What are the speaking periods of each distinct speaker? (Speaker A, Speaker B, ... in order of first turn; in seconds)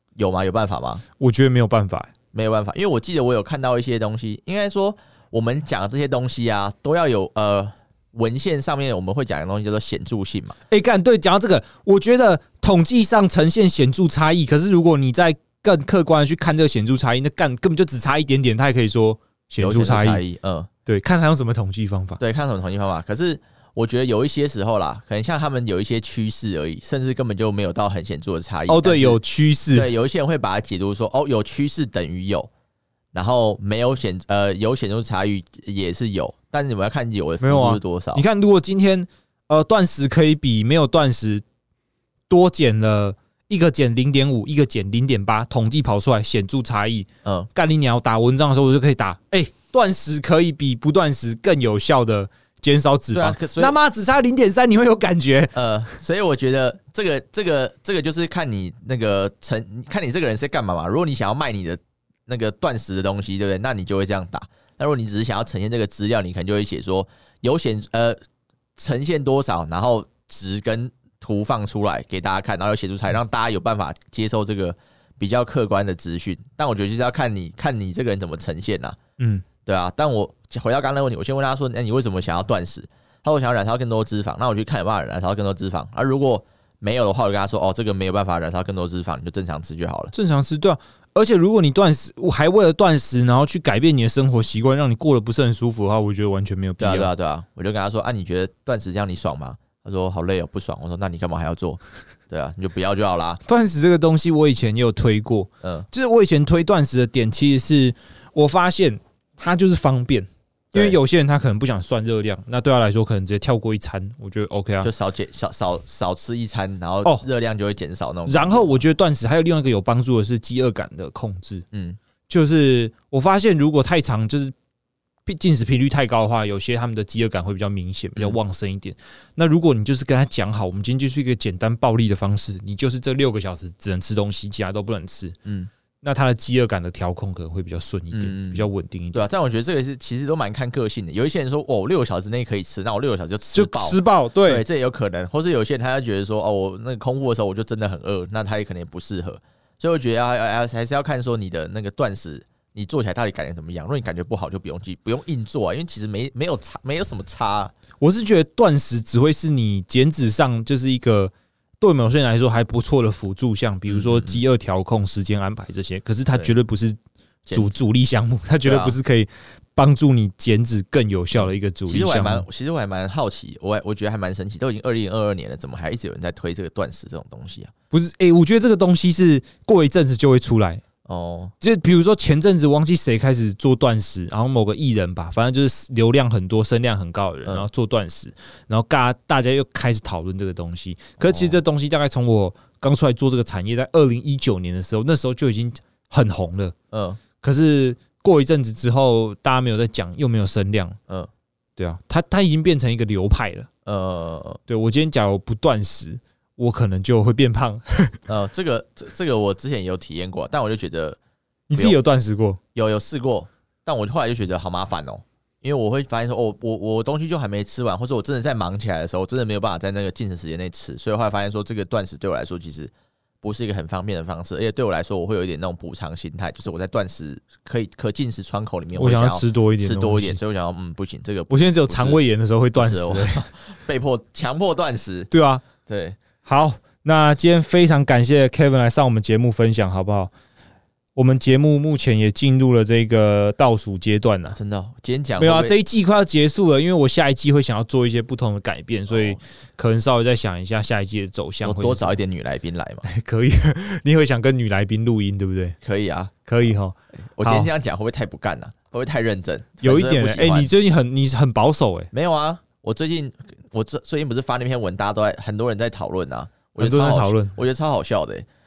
Speaker A: 0.2-1.0, 2.3-10.6, 19.6-20.7, 22.2-29.2, 29.7-32.5, 33.1-38.2, 47.2-47.5, 53.1-53.8, 55.5-68.2, 68.8-79.0, 79.7-90.1, 96.8-103.4, 105.6-105.9, 114.8-118.8, 121.7-122.0, 135.4-135.7, 138.1-157.8, 163.9-164.4, 167.5-167.8, 168.7-169.0, 171.4-177.7, 181.1-181.5, 191.2-191.6, 196.9-197.2, 203.9-204.6, 208.3-211.2, 212.8-222.9, 223.4-232.2, 232.8-235.3, 235.8-236.2, 244.5-245.8, 249.1-249.4, 251.6-253.1, 255.8-256.4, 257.4-260.7, 262.1-268.5
Speaker B: 1.2-2.1, 10.7-20.2, 20.9-22.2, 28.7-29.9, 37.4-41.4, 42.3-55.6, 79.2-79.5, 90.1-97.1, 103.5-114.9, 118.3-121.7, 122.3-124.5, 125.2-135.4, 136.0-139.2, 143.5-144.7, 158.0-167.0, 167.5-172.5, 177.9-180.8, 181.6-196.8, 197.4-201.0, 201.8-203.7, 204.7-208.2, 211.7-212.6, 228.9-230.4, 231.5-233.4, 235.3-235.6, 236.5-240.3, 241.2-244.6, 245.4-252.2, 253.1-255.8, 256.5-257.7, 259.8-262.1, 266.8-267.5